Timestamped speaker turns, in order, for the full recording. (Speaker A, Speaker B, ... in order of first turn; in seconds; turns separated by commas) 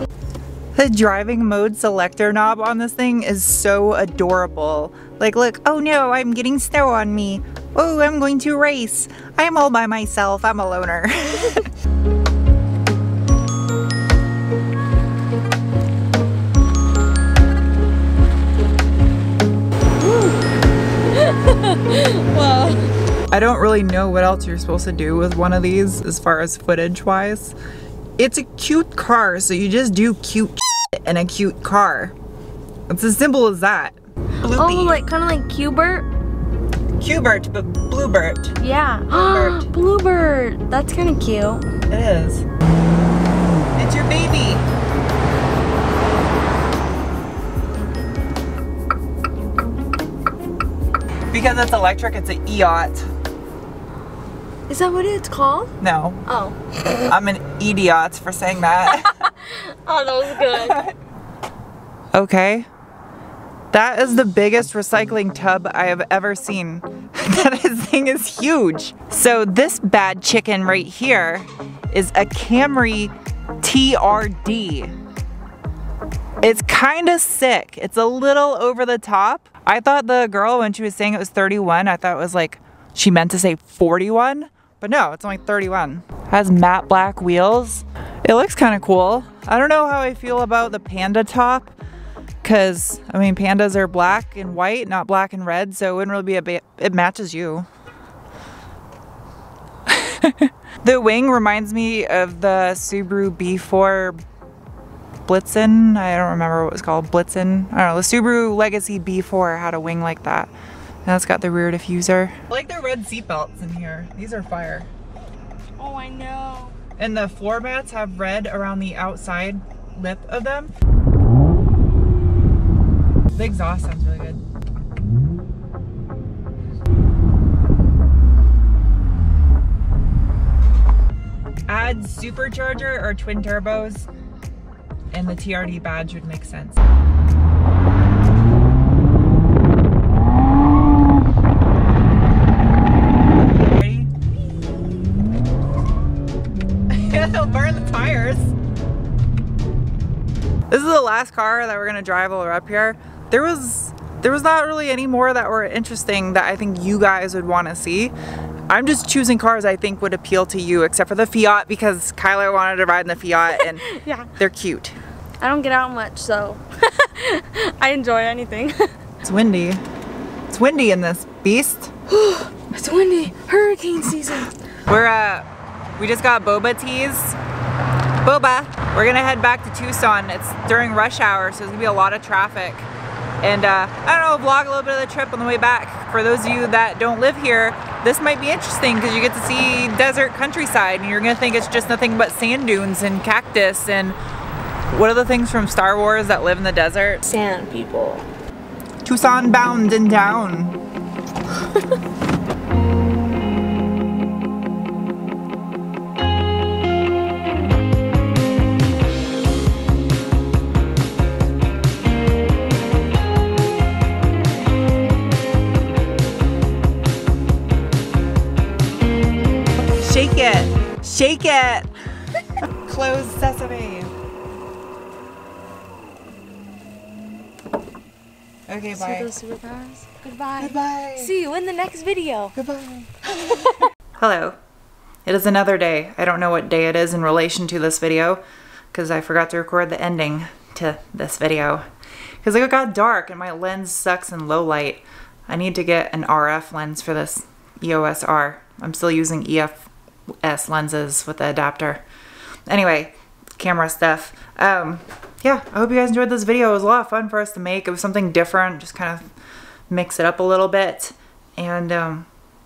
Speaker A: 0.8-11.7, Speaker B: 20.0-20.4, Speaker B: 21.1-22.9, Speaker A: 23.3-27.6, Speaker A: 28.2-32.1, Speaker A: 32.9-35.0, Speaker B: 34.4-36.1, Speaker A: 37.0-38.6, Speaker B: 38.6-41.7, Speaker A: 39.1-39.7, Speaker A: 41.9-42.5, Speaker A: 43.8-44.6, Speaker A: 51.3-53.1, Speaker B: 54.7-55.7, Speaker A: 55.8-56.2, Speaker B: 56.3-56.6, Speaker A: 57.1-59.1, Speaker B: 58.8-60.8, Speaker A: 60.5-60.9, Speaker A: 62.1-62.7, Speaker A: 63.7-74.9, Speaker A: 76.4-91.7, Speaker A: 92.4-97.7, Speaker A: 99.9-104.2, Speaker A: 105.3-110.5, Speaker A: 111.1-114.9, Speaker B: 115.8-116.8, Speaker A: 117.0-120.7, Speaker A: 123.3-124.4, Speaker A: 131.7-134.1, Speaker A: 135.1-136.8, Speaker A: 143.6-144.1, Speaker A: 146.9-148.5, Speaker A: 150.7-158.1, Speaker A: 158.7-165.0, Speaker B: 163.6-164.3, Speaker B: 165.4-168.9, Speaker A: 169.2-169.8, Speaker A: 170.5-171.9, Speaker B: 172.1-174.5, Speaker A: 174.9-177.4, Speaker A: 178.2-182.9, Speaker A: 183.4-194.2, Speaker A: 194.9-197.2, Speaker B: 197.2-198.3, Speaker A: 199.1-200.8, Speaker A: 219.9-221.9, Speaker A: 222.8-224.1, Speaker A: 228.7-229.3, Speaker B: 228.9-232.5, Speaker A: 230.6-231.3, Speaker A: 232.6-233.6, Speaker B: 233.5-233.9, Speaker A: 234.2-234.6, Speaker A: 235.3-238.4, Speaker A: 238.9-241.8, Speaker A: 242.4-249.9, Speaker A: 250.4-252.0, Speaker A: 252.7-259.3, Speaker A: 259.9-262.3